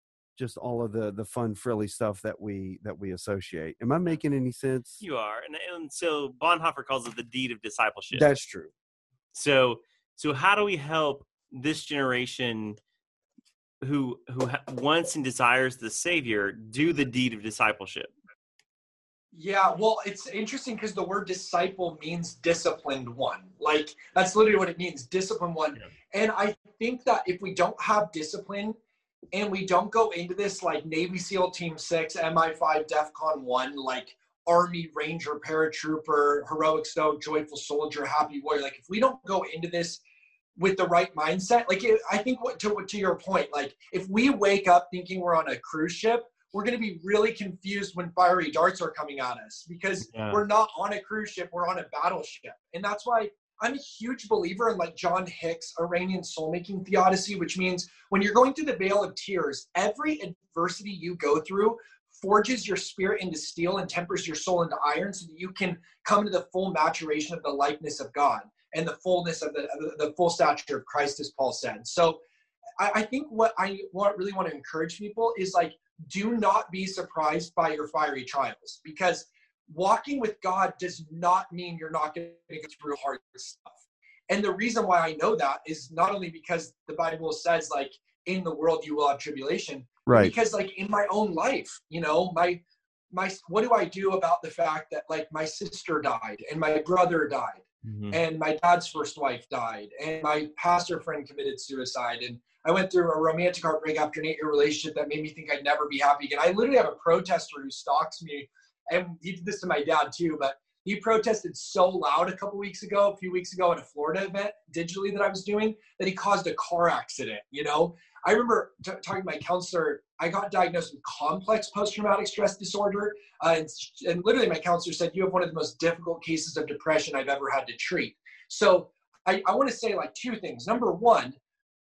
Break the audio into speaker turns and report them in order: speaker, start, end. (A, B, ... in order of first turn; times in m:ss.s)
0:00.4-0:05.0 A
0:05.0-0:08.3 B
0:08.1-0:08.7 A
0:09.3-0:12.8 B
0:13.8-0:18.1 B
0:19.3-0:28.8 C
0:29.3-0:40.0 C
0:40.6-1:12.2 C
0:50.1-0:50.4 B
1:12.8-1:32.6 C
1:30.1-1:30.3 A
1:33.1-2:11.4 C
1:37.8-1:38.2 B